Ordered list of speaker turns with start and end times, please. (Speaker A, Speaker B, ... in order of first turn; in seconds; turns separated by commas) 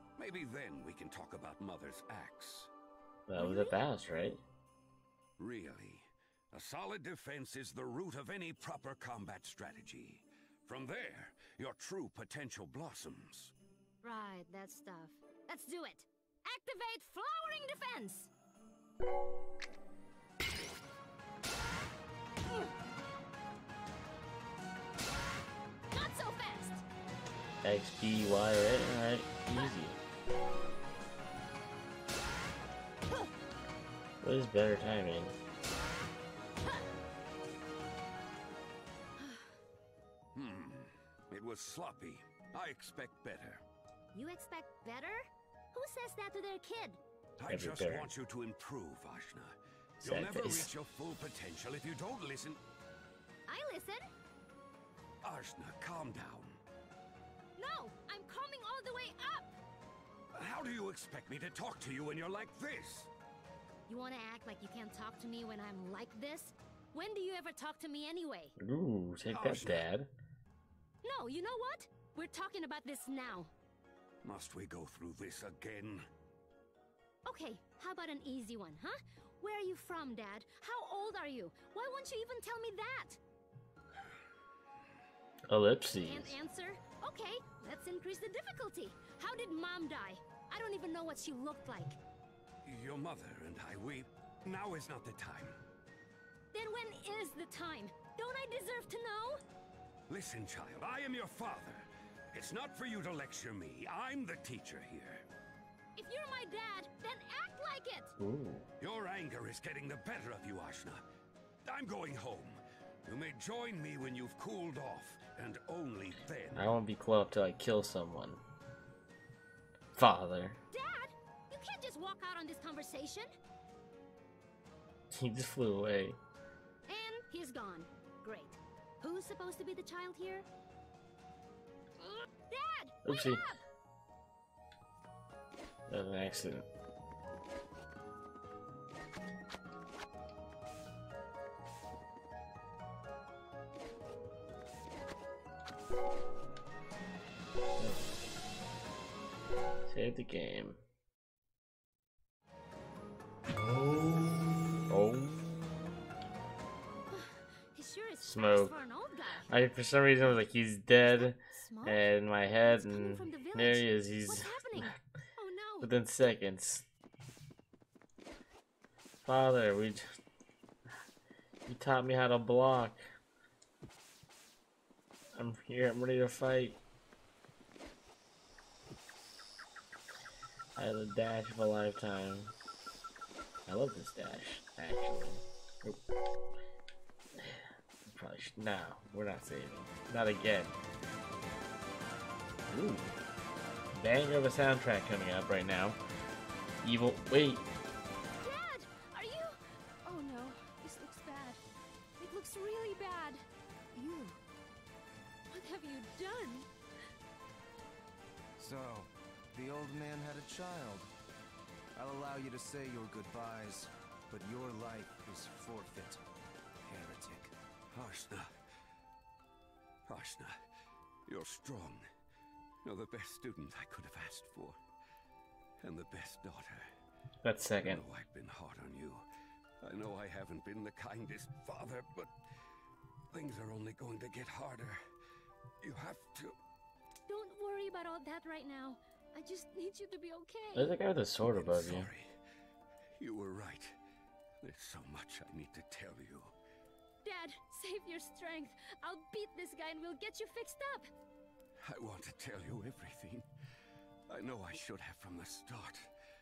Speaker A: 0.2-2.7, Speaker B: 3.3-4.4, Speaker C: 3.4-3.8, Speaker A: 5.4-13.5, Speaker C: 14.0-18.3, Speaker C: 25.9-26.8, Speaker B: 27.6-30.0, Speaker B: 34.2-35.4, Speaker C: 39.2-39.6, Speaker A: 40.4-43.6, Speaker C: 44.1-47.0, Speaker A: 47.4-52.6, Speaker B: 47.5-48.1, Speaker B: 50.0-50.7, Speaker C: 53.5-54.0, Speaker A: 55.2-56.6, Speaker C: 57.6-59.6, Speaker A: 60.4-63.1, Speaker C: 63.9-68.5, Speaker B: 68.6-70.1, Speaker A: 69.3-69.9, Speaker C: 71.0-73.5, Speaker A: 74.2-76.1, Speaker C: 77.2-83.2, Speaker B: 85.5-86.3, Speaker C: 86.0-92.0, Speaker A: 92.7-95.6, Speaker C: 96.5-99.4, Speaker A: 100.1-105.2, Speaker C: 106.0-108.1, Speaker B: 108.2-108.7, Speaker A: 108.8-111.0, Speaker A: 111.7-116.8, Speaker B: 116.5-118.4, Speaker B: 120.0-120.6, Speaker C: 120.7-123.3, Speaker B: 125.1-126.2, Speaker C: 126.9-130.5, Speaker C: 132.0-133.6, Speaker B: 133.1-133.4, Speaker B: 135.9-136.7, Speaker B: 147.7-148.1, Speaker B: 149.9-150.8, Speaker B: 154.9-155.9, Speaker C: 157.1-159.5, Speaker B: 158.2-158.8, Speaker B: 159.5-164.9, Speaker C: 161.0-162.1, Speaker C: 162.6-165.9, Speaker B: 165.8-166.9, Speaker B: 169.2-170.0, Speaker B: 171.7-173.0, Speaker B: 175.3-176.8, Speaker B: 180.8-182.5, Speaker B: 183.7-186.0, Speaker B: 187.3-190.7, Speaker B: 192.7-193.2, Speaker B: 193.9-196.0, Speaker B: 196.8-197.7, Speaker C: 198.4-201.6, Speaker C: 202.2-204.4, Speaker C: 205.5-206.7, Speaker D: 208.6-211.1, Speaker D: 212.0-216.2, Speaker D: 216.9-217.5, Speaker A: 217.9-218.5, Speaker A: 220.1-220.6, Speaker A: 221.3-222.1, Speaker A: 222.8-224.8, Speaker A: 225.8-226.9, Speaker B: 227.4-228.0, Speaker A: 227.8-229.2, Speaker A: 229.8-232.3, Speaker A: 233.3-235.0, Speaker A: 235.8-236.6, Speaker C: 237.3-240.9, Speaker B: 240.8-242.1, Speaker A: 241.4-242.3, Speaker A: 243.2-244.0, Speaker A: 244.6-246.5, Speaker C: 247.2-251.1, Speaker A: 251.8-253.5, Speaker A: 254.3-256.1